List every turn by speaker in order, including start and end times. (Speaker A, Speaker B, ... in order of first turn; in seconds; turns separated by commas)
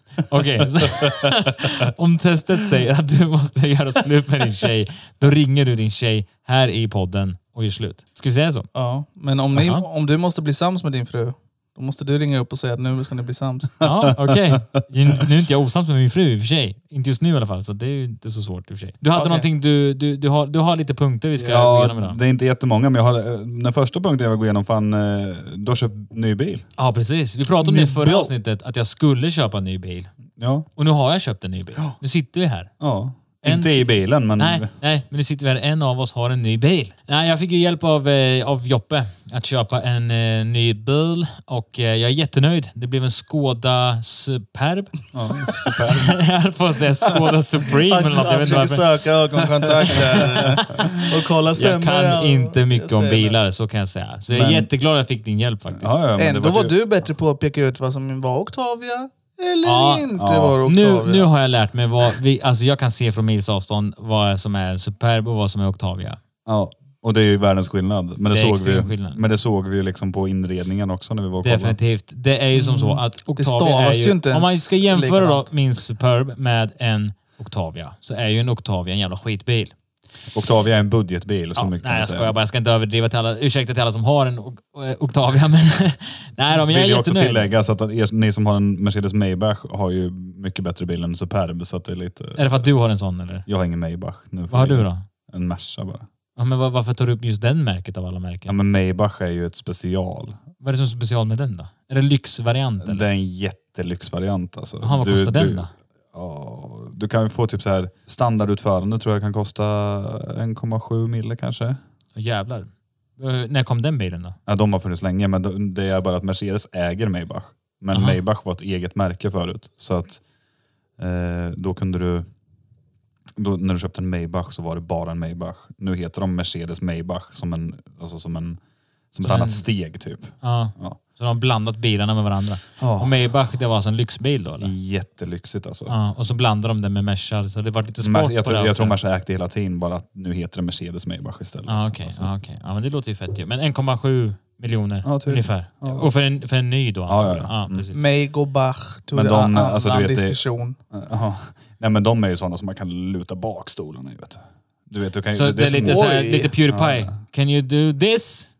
Speaker A: 0.3-8.7, Speaker B: 8.7-13.8, Speaker A: 9.6-9.8, Speaker A: 13.8-22.2, Speaker C: 13.9-14.6, Speaker B: 19.1-19.4, Speaker C: 21.4-26.6, Speaker A: 26.8-30.1, Speaker B: 27.6-28.3, Speaker C: 30.4-30.7, Speaker A: 30.8-32.7, Speaker C: 32.8-34.7, Speaker A: 33.4-45.0, Speaker C: 45.1-46.2, Speaker A: 45.9-56.0, Speaker B: 47.9-53.4, Speaker C: 50.5-50.8, Speaker C: 54.3-54.7, Speaker C: 55.7-56.8, Speaker B: 56.1-61.3, Speaker A: 59.6-66.2, Speaker C: 60.2-60.5, Speaker C: 66.5-71.8, Speaker A: 68.3-69.2, Speaker A: 71.4-79.7, Speaker B: 72.5-75.5, Speaker C: 80.3-82.3, Speaker A: 81.5-87.5, Speaker C: 86.6-92.6, Speaker A: 92.3-93.5, Speaker C: 93.5-96.0, Speaker A: 94.5-95.0, Speaker A: 96.3-98.5, Speaker C: 98.5-100.4, Speaker A: 100.6-103.0, Speaker C: 102.8-111.8, Speaker A: 104.8-105.7, Speaker A: 112.2-114.4, Speaker C: 114.5-120.2, Speaker A: 117.9-118.2, Speaker C: 121.0-122.2, Speaker C: 123.3-128.6, Speaker C: 129.1-131.0, Speaker A: 129.2-129.7, Speaker A: 130.4-134.7, Speaker C: 132.8-133.1, Speaker C: 134.6-135.9, Speaker A: 135.9-138.9, Speaker C: 138.0-142.3, Speaker A: 141.7-148.0, Speaker C: 145.0-146.1, Speaker C: 147.1-147.8, Speaker B: 147.9-150.8, Speaker C: 149.1-150.4, Speaker C: 150.9-156.1, Speaker A: 155.3-158.5, Speaker B: 155.8-156.5, Speaker C: 156.7-157.1